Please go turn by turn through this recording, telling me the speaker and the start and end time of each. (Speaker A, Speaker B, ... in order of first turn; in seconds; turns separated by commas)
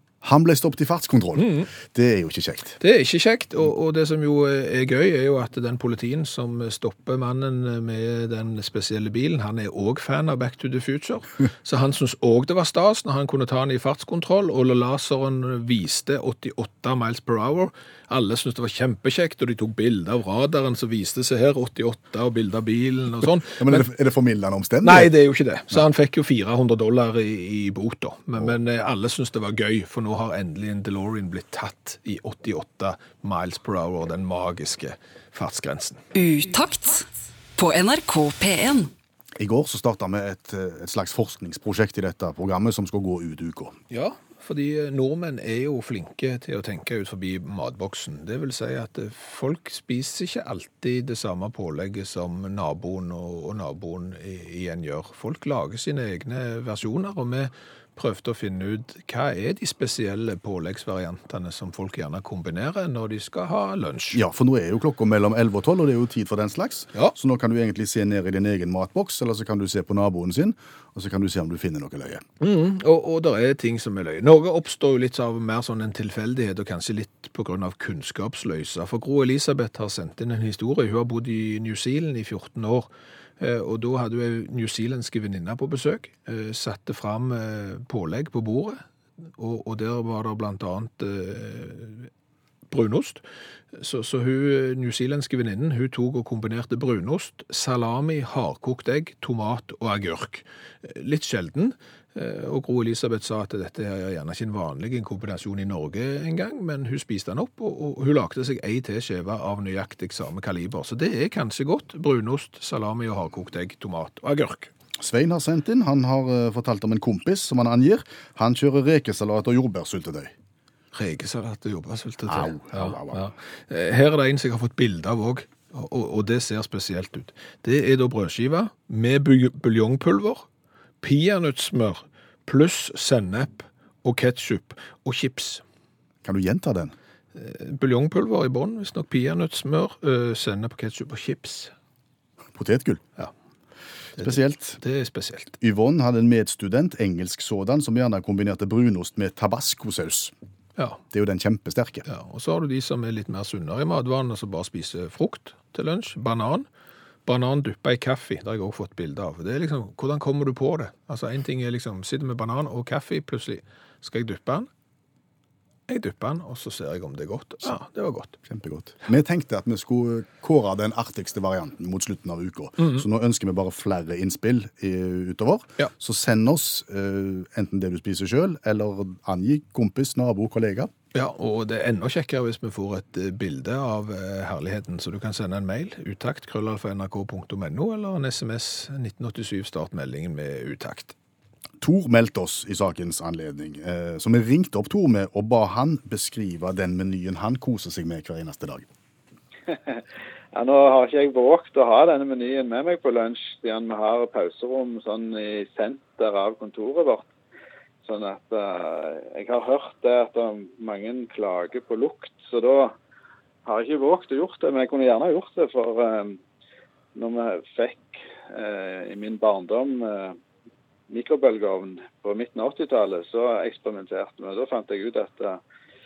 Speaker A: 0.2-2.8, Speaker B: 1.4-1.7, Speaker B: 2.8-23.9, Speaker A: 23.4-25.1, Speaker B: 24.8-36.0, Speaker C: 36.1-38.9, Speaker A: 39.4-43.8, Speaker B: 43.9-64.2, Speaker A: 64.1-72.2, Speaker B: 72.4-82.9, Speaker B: 83.4-88.8, Speaker B: 89.3-92.1, Speaker B: 92.7-93.2, Speaker B: 93.7-114.7, Speaker A: 115.0-120.3, Speaker B: 120.9-130.4, Speaker A: 122.3-123.3, Speaker B: 131.0-135.6, Speaker A: 136.2-136.9, Speaker B: 137.3-141.7, Speaker A: 142.5-143.0, Speaker B: 144.2-145.6, Speaker A: 144.2-144.8, Speaker A: 145.6-150.3, Speaker A: 151.1-152.0, Speaker B: 152.0-156.7, Speaker B: 157.2-164.7, Speaker B: 165.9-168.3, Speaker A: 168.4-180.9, Speaker B: 172.8-173.0, Speaker B: 181.1-191.1, Speaker A: 191.8-198.9, Speaker D: 199.7-200.0, Speaker D: 200.5-207.3, Speaker D: 208.0-212.9, Speaker D: 213.6-216.4, Speaker D: 217.1-220.4, Speaker D: 221.1-225.6